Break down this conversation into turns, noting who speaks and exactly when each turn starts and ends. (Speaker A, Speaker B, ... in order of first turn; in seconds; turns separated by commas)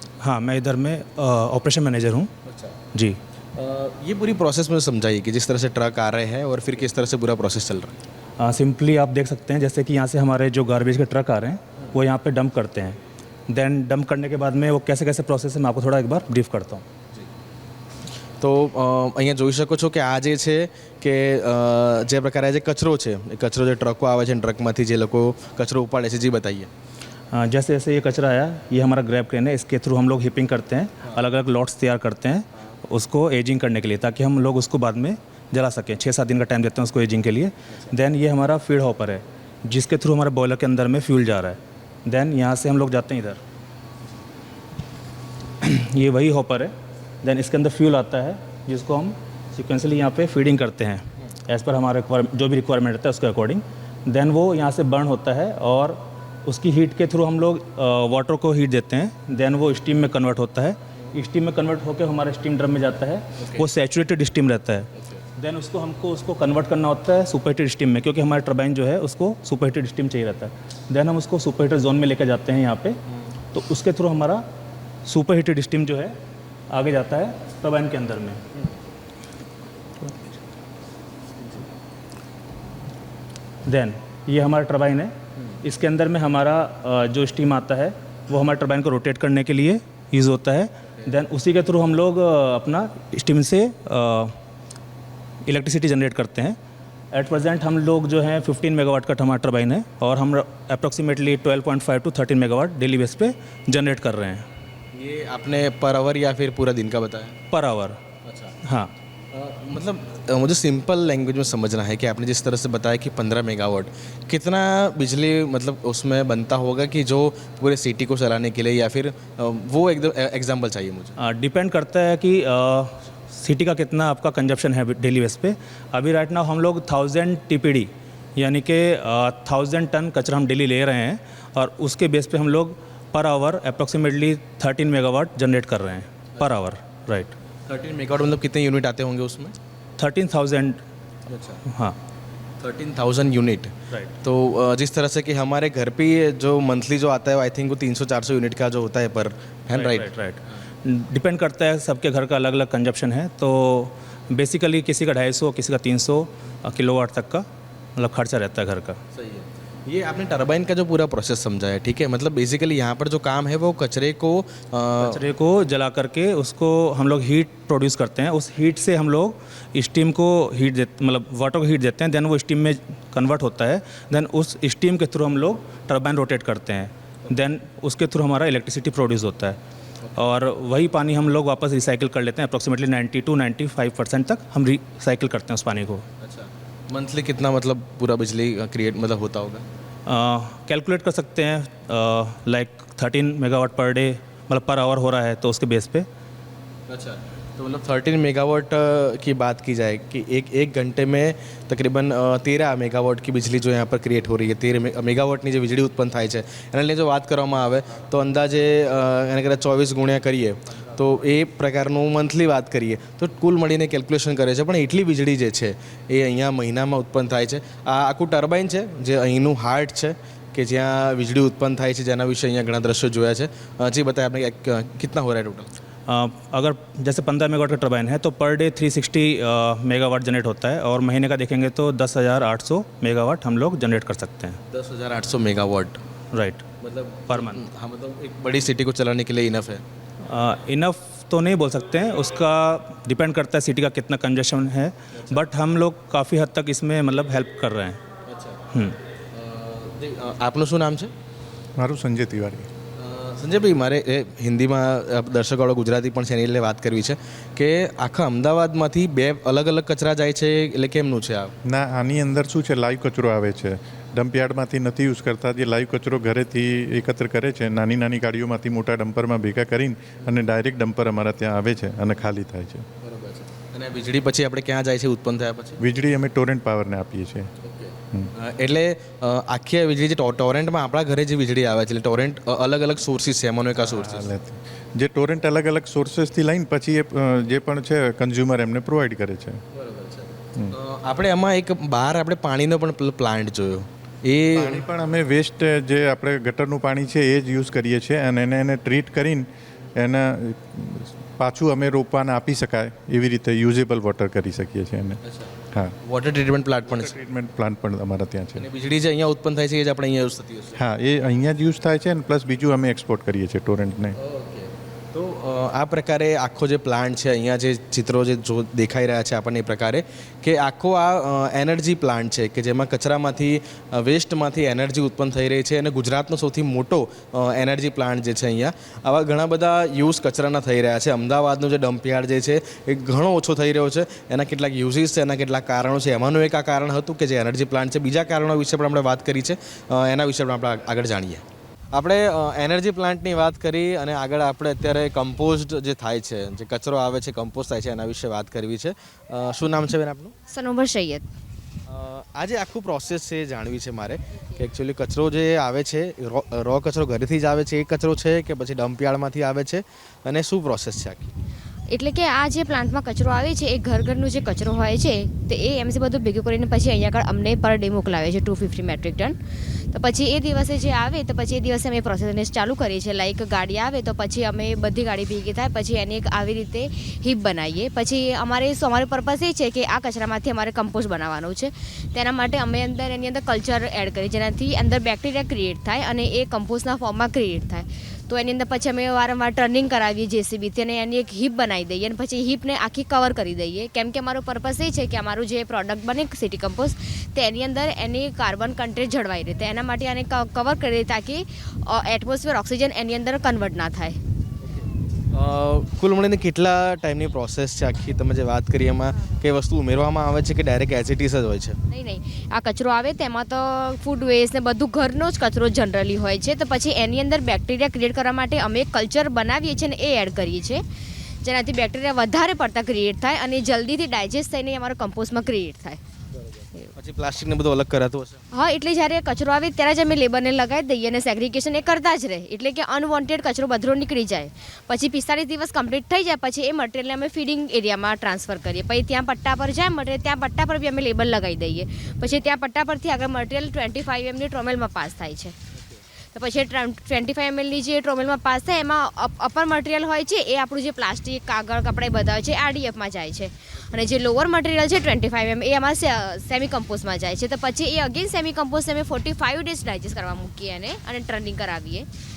Speaker A: 0.2-2.3, Speaker B: 2.4-2.8, Speaker A: 2.9-3.2, Speaker B: 3.5-8.0, Speaker A: 8.4-16.8, Speaker B: 18.4-26.7, Speaker A: 27.3-43.4, Speaker A: 45.6-73.0, Speaker B: 63.4-63.7, Speaker B: 64.9-65.2, Speaker A: 73.5-74.5, Speaker A: 75.0-76.2, Speaker A: 76.7-78.4, Speaker A: 83.7-94.4, Speaker A: 95.5-96.6, Speaker A: 97.1-104.5, Speaker B: 104.9-107.3, Speaker A: 107.5-108.0, Speaker B: 108.2-108.6, Speaker A: 108.6-108.9, Speaker B: 109.3-121.2, Speaker A: 121.2-137.3, Speaker B: 137.7-139.6, Speaker A: 140.0-140.8, Speaker B: 141.3-141.6, Speaker A: 141.7-142.0, Speaker B: 142.6-150.1, Speaker A: 149.7-159.0, Speaker B: 159.1-165.2, Speaker A: 165.0-179.6, Speaker A: 180.1-186.1, Speaker B: 186.2-189.6, Speaker A: 190.1-196.1, Speaker B: 196.9-225.7, Speaker A: 226.1-234.6, Speaker B: 234.7-236.0, Speaker A: 236.3-236.7, Speaker B: 236.8-239.8, Speaker A: 237.3-237.6, Speaker A: 240.2-248.0, Speaker B: 245.1-245.4, Speaker B: 248.2-248.7, Speaker A: 248.7-249.0, Speaker B: 249.3-251.1, Speaker C: 251.8-252.7, Speaker B: 252.9-261.6, Speaker C: 261.6-272.9, Speaker B: 273.0-275.8, Speaker C: 275.8-277.5, Speaker B: 277.6-284.3, Speaker C: 284.0-289.6, Speaker B: 289.7-294.8, Speaker C: 294.5-305.2, Speaker B: 305.2-307.2, Speaker C: 306.9-308.6, Speaker B: 308.5-310.8, Speaker C: 310.8-314.2, Speaker B: 314.2-350.3, Speaker D: 350.5-351.2, Speaker B: 351.9-361.3, Speaker D: 361.9-404.2, Speaker B: 404.6-411.8, Speaker D: 411.9-420.8, Speaker D: 421.4-426.0, Speaker B: 426.9-428.4, Speaker D: 428.5-445.6, Speaker B: 445.7-446.0, Speaker D: 446.3-462.1, Speaker B: 453.8-454.1